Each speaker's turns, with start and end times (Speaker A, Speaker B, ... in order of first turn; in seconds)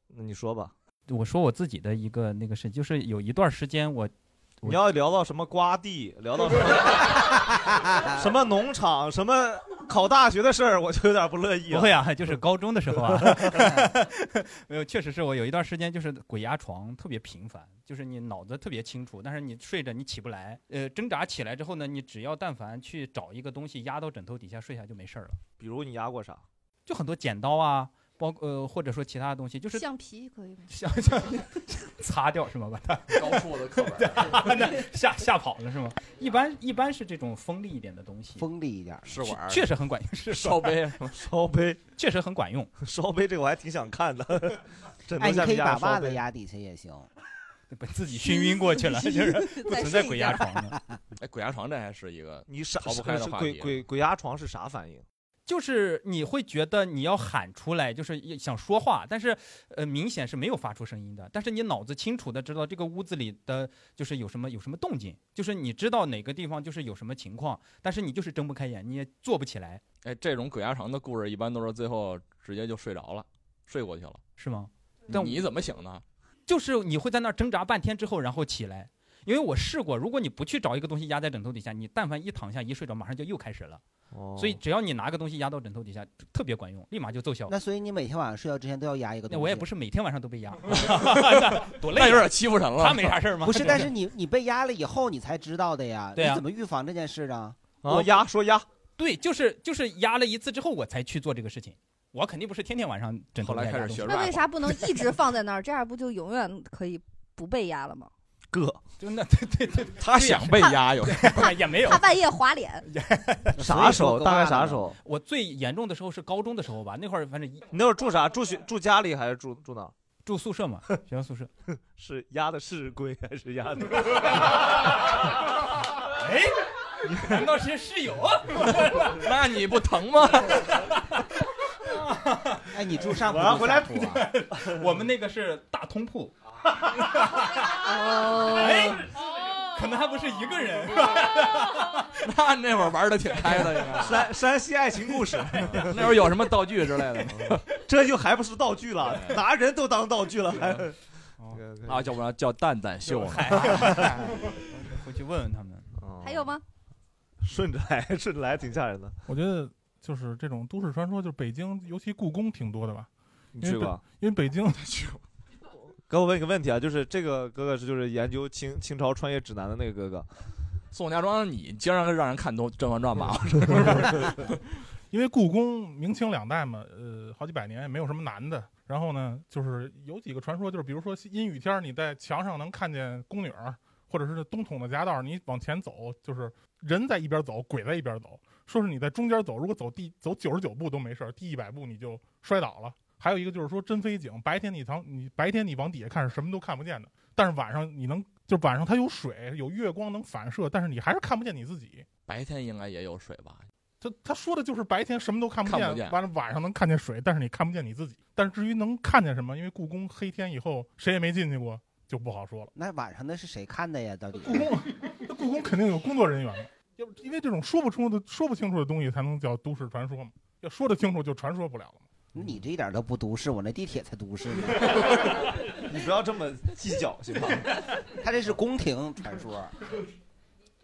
Speaker A: 0.1-0.7, 4.6-12.0, 13.1-13.7, 25.6-26.4, 41.1-41.8, 42.8-46.2, 52.5-55.0, 84.1-84.6, 97.8-98.7, 108.5-108.8, 113.6-115.0, 117.7-119.9, 121.9-124.7, 127.1-127.4, 133.4-133.7, 143.9-146.2, 147.3-151.0, 151.5-152.1, 153.6-154.0, 156.0-156.6, 157.4-159.2, 163.5-164.0, 166.1-170.3, 225.7-227.7
Speaker B: 1.1-4.8, 11.7-25.4, 26.9-29.9, 30.7-38.4, 39.3-40.7, 42.0-42.7, 47.7-50.8, 55.5-69.8, 74.4-75.4, 76.5-83.8, 84.4-87.5, 89.3-93.9, 96.1-96.4, 99.0-104.1, 109.0-112.0, 112.8-114.1, 115.0-117.7, 120.2-121.5, 126.2-126.5, 127.2-129.1, 131.9-132.6, 133.3-136.3, 137.0-142.1, 143.6-143.8, 153.1-155.9
Speaker C: 29.7-30.7, 48.2-50.6, 104.0-108.1, 111.4-112.9, 137.8-139.0, 156.2-156.6
Speaker D: 33.1-34.5, 39.0-39.7, 40.3-41.2, 51.2-53.8, 70.0-74.2, 75.1-76.0, 91.0-93.2, 103.4-104.8, 110.0-111.5, 128.7-130.7, 142.1-144.3, 145.7-147.6, 149.0-149.4, 150.5-150.8, 151.8-154.0, 170.9-174.6, 202.3-203.6, 205.6-206.2
Speaker E: 38.4-39.2, 45.2-47.1, 87.5-89.7, 93.4-97.6, 113.5-114.9, 132.7-134.3, 212.7-214.7, 222.3-225.0, 228.2-229.7
Speaker F: 159.3-163.1, 163.6-165.2, 175.1-202.0, 204.0-212.7, 214.5-222.1